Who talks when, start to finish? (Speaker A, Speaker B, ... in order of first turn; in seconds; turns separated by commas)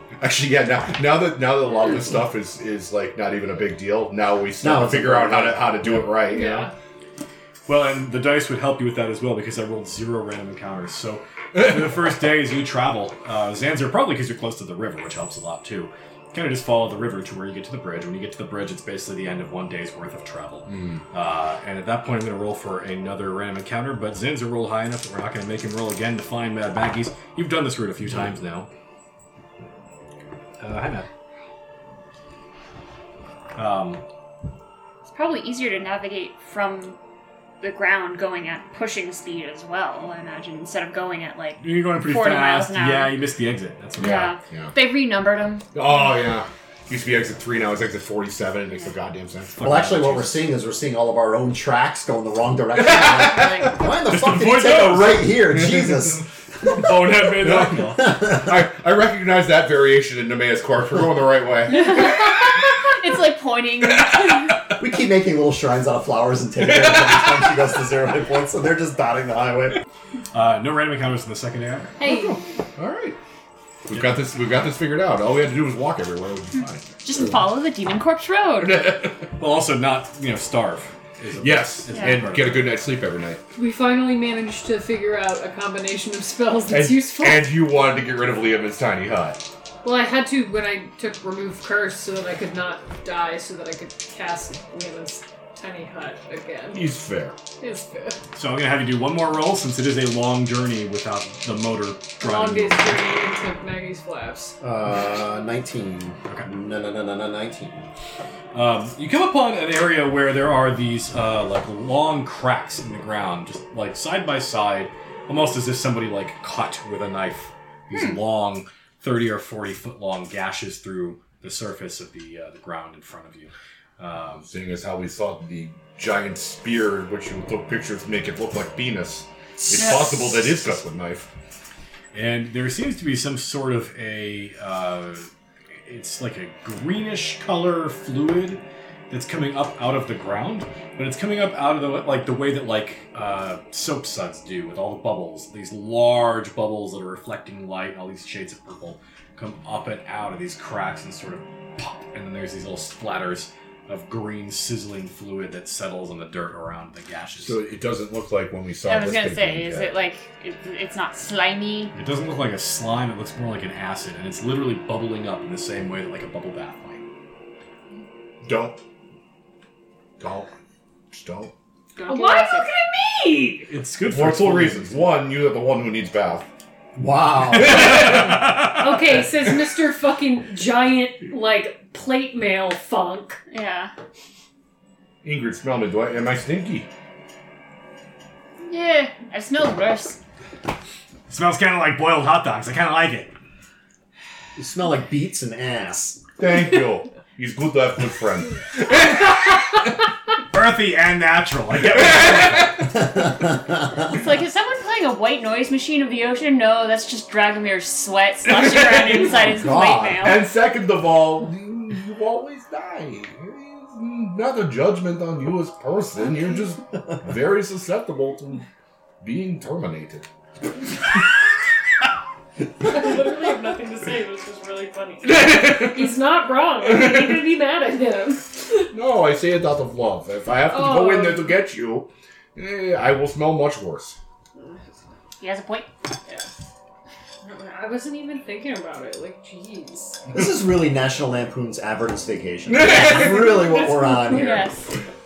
Speaker A: 0.2-6.7, Speaker B: 4.6-6.3, Speaker C: 6.3-6.7, Speaker D: 7.7-28.7, Speaker A: 20.7-21.0, Speaker D: 30.6-31.1, Speaker D: 33.5-34.0, Speaker E: 35.1-37.0, Speaker E: 37.6-43.2, Speaker D: 41.6-44.3, Speaker E: 44.0-45.8, Speaker A: 44.0-44.7, Speaker A: 45.7-49.6, Speaker D: 49.5-50.5, Speaker B: 49.6-56.9, Speaker A: 52.8-53.7, Speaker E: 53.0-53.8, Speaker D: 54.0-55.5, Speaker D: 56.6-58.1, Speaker A: 57.4-62.1, Speaker B: 57.8-58.6, Speaker E: 61.7-64.6, Speaker B: 64.8-69.8, Speaker D: 70.3-72.0, Speaker C: 72.0-72.4, Speaker A: 72.0-73.2, Speaker A: 73.9-76.8, Speaker E: 77.0-78.9, Speaker A: 78.6-79.2, Speaker D: 79.4-82.7, Speaker A: 81.4-83.4, Speaker E: 81.9-82.2, Speaker C: 83.5-87.5, Speaker A: 86.7-89.4, Speaker C: 89.8-96.9, Speaker A: 96.7-97.4, Speaker C: 97.6-98.2, Speaker D: 98.3-103.0, Speaker C: 102.2-104.5, Speaker B: 104.6-107.9, Speaker D: 108.5-124.5, Speaker A: 124.5-131.3, Speaker E: 129.7-130.1, Speaker D: 132.1-135.3, Speaker D: 135.8-157.6, Speaker A: 157.4-159.9, Speaker E: 158.8-161.9, Speaker D: 161.9-167.0, Speaker A: 168.4-168.8, Speaker A: 170.2-170.5, Speaker A: 171.1-171.5, Speaker E: 171.9-172.7, Speaker C: 172.1-173.7, Speaker D: 173.7-175.1, Speaker A: 174.1-176.5, Speaker B: 176.9-178.2, Speaker A: 177.5-178.6, Speaker D: 177.8-178.9, Speaker C: 178.6-183.4, Speaker E: 183.5-183.9, Speaker A: 185.2-186.9, Speaker E: 188.7-190.2, Speaker D: 191.3-193.3, Speaker B: 194.6-196.2, Speaker A: 196.4-199.3, Speaker D: 200.5-202.8, Speaker A: 201.9-202.9, Speaker E: 204.1-210.4, Speaker A: 208.5-218.7, Speaker A: 219.2-220.2, Speaker C: 222.8-228.9, Speaker A: 225.3-226.1, Speaker A: 227.0-227.3, Speaker A: 228.9-234.2, Speaker C: 230.6-231.6, Speaker C: 234.5-234.9, Speaker E: 235.4-235.9, Speaker C: 237.4-240.2, Speaker B: 240.3-244.7, Speaker A: 242.7-243.4, Speaker C: 243.1-244.7, Speaker E: 244.3-244.9